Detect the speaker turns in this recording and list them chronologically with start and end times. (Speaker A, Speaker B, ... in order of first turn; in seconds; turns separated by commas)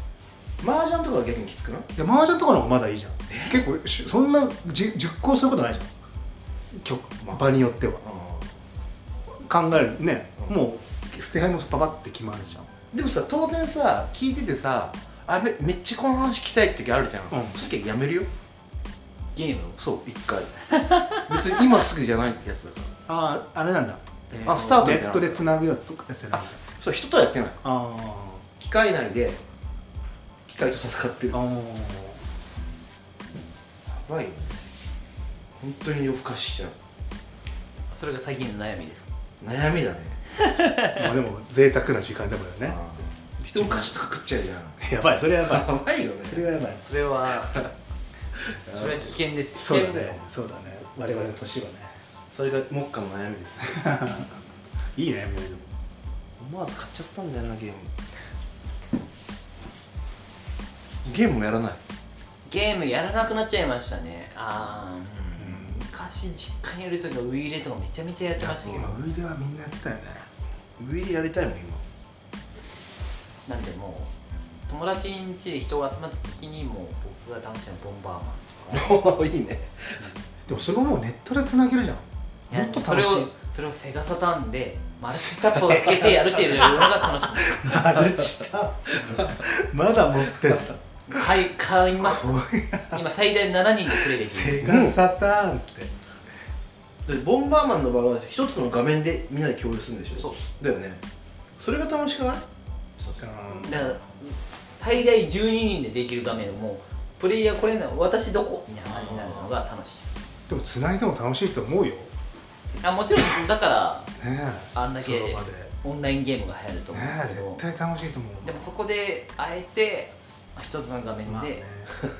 Speaker A: 0.6-1.9, Speaker B: 1.9-5.9, Speaker A: 3.3-3.6, Speaker B: 6.7-8.0, Speaker A: 7.2-8.5, Speaker B: 9.3-12.7, Speaker A: 12.9-18.3, Speaker B: 17.3-17.6, Speaker C: 19.3-19.8, Speaker A: 19.8-20.6, Speaker C: 20.7-21.2, Speaker A: 21.1-22.9, Speaker B: 23.1-26.6, Speaker A: 24.4-25.5, Speaker A: 26.8-27.6, Speaker B: 27.6-28.4, Speaker A: 28.6-29.4, Speaker A: 30.4-31.4, Speaker B: 31.3-32.2, Speaker A: 33.9-34.6, Speaker A: 35.6-36.8, Speaker C: 37.9-39.1, Speaker A: 39.4-40.2, Speaker C: 40.4-41.0, Speaker B: 40.9-42.8, Speaker A: 42.7-44.8, Speaker B: 43.4-43.9, Speaker B: 44.8-45.7, Speaker A: 45.4-46.6, Speaker B: 46.2-46.8, Speaker C: 46.7-47.6, Speaker A: 48.5-49.1, Speaker C: 48.7-50.2, Speaker B: 49.5-51.9, Speaker A: 52.3-54.1, Speaker B: 53.6-54.3, Speaker B: 55.0-55.7, Speaker A: 56.4-57.9, Speaker A: 61.0-61.8, Speaker C: 62.5-69.0, Speaker B: 65.4-65.8, Speaker B: 68.4-70.3, Speaker A: 68.6-69.0, Speaker A: 70.8-71.8, Speaker C: 73.5-74.1, Speaker C: 74.7-78.9, Speaker A: 78.7-80.0, Speaker B: 80.5-83.3, Speaker C: 82.5-87.6, Speaker B: 85.1-91.2, Speaker A: 87.8-88.3, Speaker A: 89.0-89.3, Speaker C: 91.1-94.6, Speaker B: 92.0-93.0, Speaker B: 94.0-95.9, Speaker A: 94.6-95.0, Speaker A: 97.0-101.0, Speaker C: 100.2-100.4, Speaker A: 101.6-102.4, Speaker C: 103.0-110.2, Speaker B: 103.2-103.8, Speaker B: 110.5-112.1, Speaker C: 112.8-114.1, Speaker B: 114.2-115.7, Speaker C: 114.7-117.6, Speaker B: 116.9-118.7, Speaker C: 118.4-121.6, Speaker B: 121.2-121.9